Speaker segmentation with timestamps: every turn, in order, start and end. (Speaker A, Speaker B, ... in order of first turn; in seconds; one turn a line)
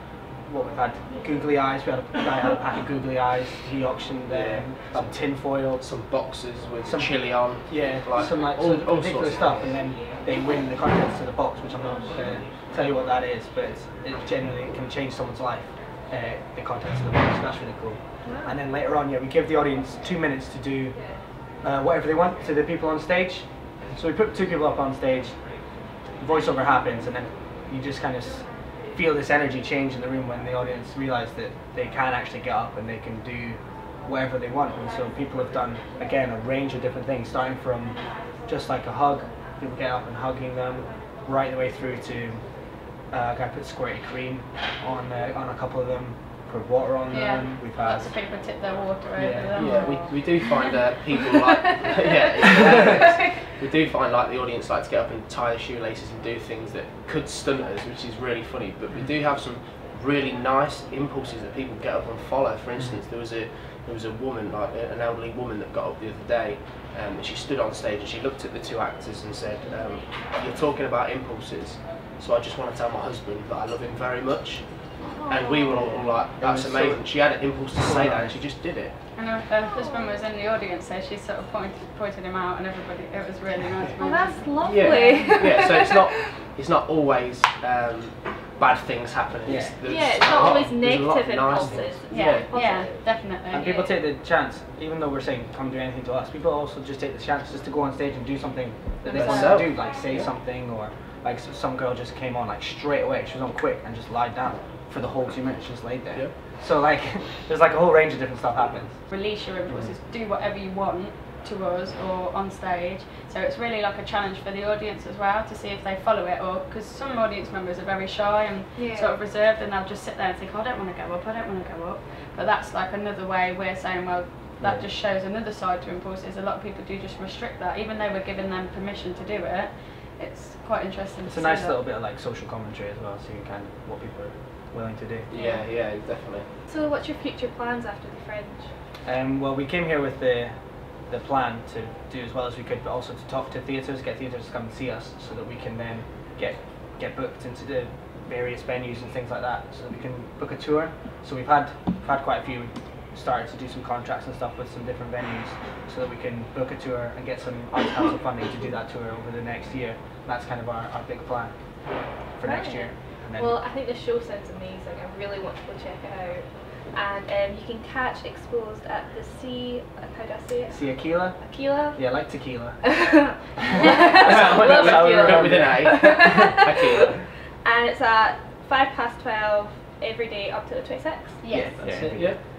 Speaker A: 0.4-5.9
Speaker B: 4.3-5.2
Speaker B: 5.8-9.8
Speaker A: 6.8-25.4
Speaker C: 18.2-18.5
Speaker A: 26.2-48.2
Speaker D: 47.1-50.7
Speaker A: 49.2-50.0
Speaker B: 49.5-78.9
Speaker C: 75.1-75.8
Speaker A: 75.7-78.4
Speaker D: 79.1-85.3
Speaker C: 79.7-80.2
Speaker C: 84.0-86.2
Speaker B: 84.5-92.5
Speaker A: 89.4-90.0
Speaker C: 89.8-93.1
Speaker A: 91.5-91.9
Speaker D: 92.1-93.9
Speaker A: 93.5-109.0
Speaker D: 99.0-99.6
Speaker B: 99.1-100.3
Speaker D: 109.1-131.8
Speaker B: 109.7-109.9
Speaker C: 118.7-119.2
Speaker A: 124.6-124.9
Speaker A: 131.2-135.3
Speaker B: 135.3-136.5
Speaker C: 135.3-135.7
Speaker C: 136.7-138.7
Speaker A: 139.1-140.6
Speaker A: 141.1-161.5
Speaker A: 162.3-163.5
Speaker C: 162.4-172.2
Speaker A: 170.7-173.0
Speaker C: 172.8-181.4
Speaker A: 173.7-176.3
Speaker B: 174.3-177.2
Speaker D: 181.4-181.9
Speaker A: 181.5-182.4
Speaker B: 181.8-182.4